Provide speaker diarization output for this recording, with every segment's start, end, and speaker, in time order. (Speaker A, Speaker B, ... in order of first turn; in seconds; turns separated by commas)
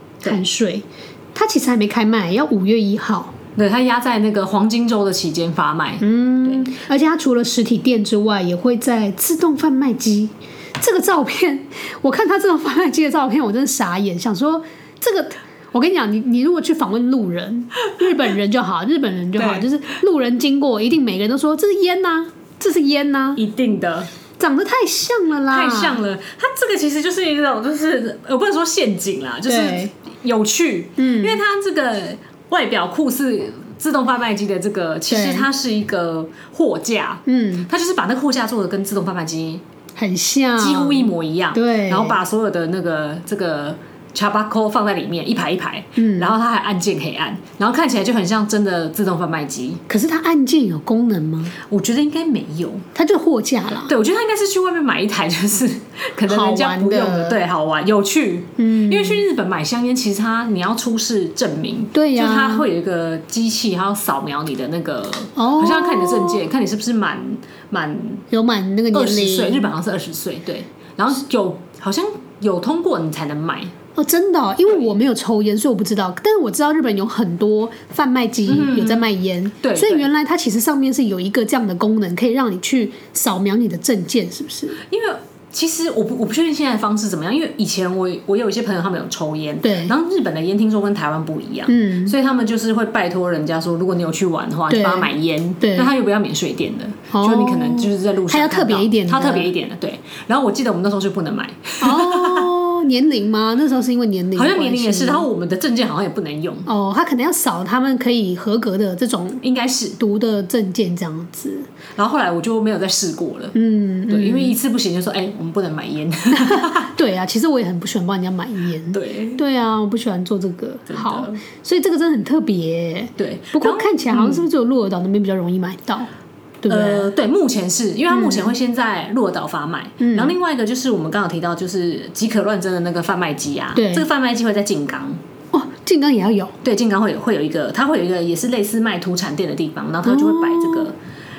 Speaker A: 0.2-3.4, Speaker B: 3.5-6.7, Speaker A: 6.0-23.4, Speaker B: 19.4-19.7, Speaker B: 23.4-24.1, Speaker A: 24.4-26.0, Speaker B: 25.5-39.6, Speaker A: 29.5-29.9, Speaker A: 31.0-31.4, Speaker A: 35.1-35.5, Speaker A: 37.2-37.7, Speaker A: 40.0-42.2, Speaker B: 40.6-49.8, Speaker A: 46.0-46.3, Speaker A: 49.9-51.6, Speaker B: 51.6-52.9, Speaker A: 52.9-53.9, Speaker B: 53.9-68.2, Speaker A: 56.2-57.4, Speaker A: 58.6-59.2, Speaker A: 61.9-62.7, Speaker A: 65.3-66.5, Speaker A: 68.3-69.7, Speaker B: 68.9-73.7, Speaker A: 74.0-84.8, Speaker B: 78.5-79.1, Speaker B: 79.6-80.1, Speaker B: 84.8-102.5, Speaker A: 89.6-89.9, Speaker A: 91.7-92.2, Speaker A: 94.7-95.9, Speaker A: 97.1-99.5, Speaker A: 101.8-105.3, Speaker B: 104.3-106.7, Speaker A: 106.7-109.4, Speaker B: 109.4-110.0, Speaker A: 110.0-111.7, Speaker B: 112.0-113.5, Speaker A: 113.5-114.6, Speaker B: 114.1-116.9, Speaker A: 116.4-126.1, Speaker B: 118.9-119.4, Speaker B: 120.9-121.4, Speaker B: 123.2-124.4, Speaker A: 126.6-127.1, Speaker B: 126.7-135.2, Speaker A: 128.1-128.5, Speaker A: 130.0-130.3, Speaker A: 133.7-134.1, Speaker A: 135.5-136.6, Speaker B: 136.6-141.0, Speaker A: 140.0-140.9